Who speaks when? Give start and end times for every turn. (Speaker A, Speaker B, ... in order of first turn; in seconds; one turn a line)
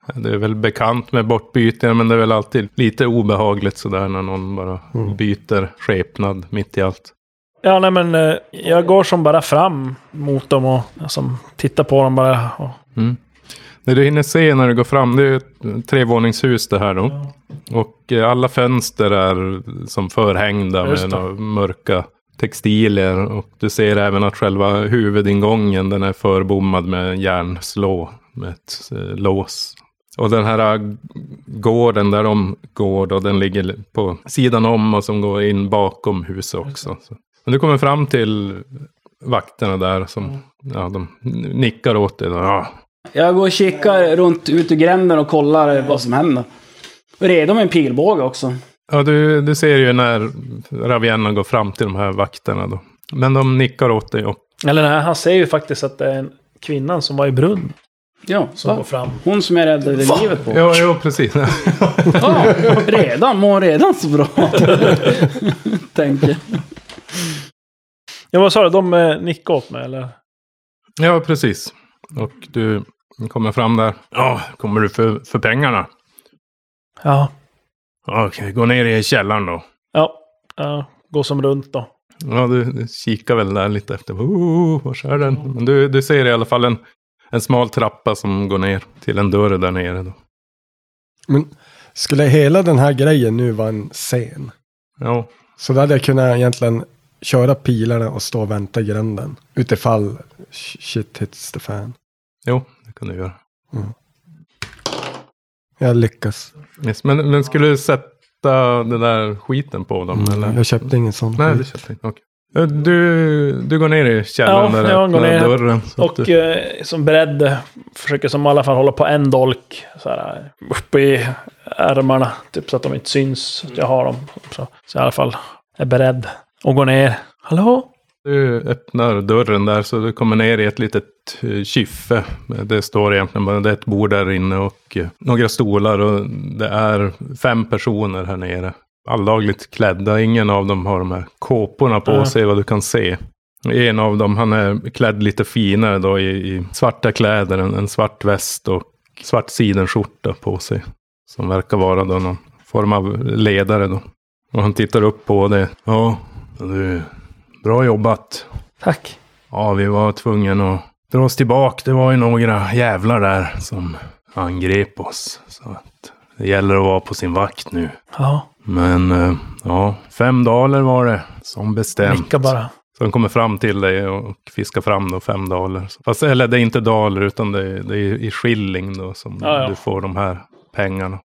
Speaker A: 0.1-7.1
Speaker B: 7.6-12.8
Speaker A: 13.8-38.7
Speaker B: 20.8-21.2
Speaker A: 39.2-42.7
Speaker C: 43.1-46.5
Speaker C: 47.2-48.6
Speaker A: 48.9-54.4
Speaker B: 54.6-57.7
Speaker C: 58.3-60.8
Speaker B: 58.6-59.2
Speaker A: 60.5-62.7
Speaker C: 62.2-66.6
Speaker B: 68.3-70.1
Speaker A: 71.0-75.9
Speaker B: 77.0-77.3
Speaker A: 78.1-79.6
Speaker B: 79.9-81.9
Speaker A: 82.2-86.8
Speaker A: 87.3-90.2
Speaker D: 91.3-94.5
Speaker A: 95.0-95.3
Speaker D: 95.6-102.0
Speaker A: 102.5-103.4
Speaker D: 105.8-106.5
Speaker A: 106.8-116.3
Speaker D: 110.1-111.6
Speaker B: 114.5-127.9
Speaker A: 128.2-157.1
Speaker B: 142.1-142.3
Speaker A: 157.6-158.5
Speaker B: 158.8-159.2
Speaker A: 159.5-167.9
Speaker B: 168.2-168.5
Speaker A: 168.7-181.2
Speaker B: 172.1-172.7
Speaker B: 179.4-179.8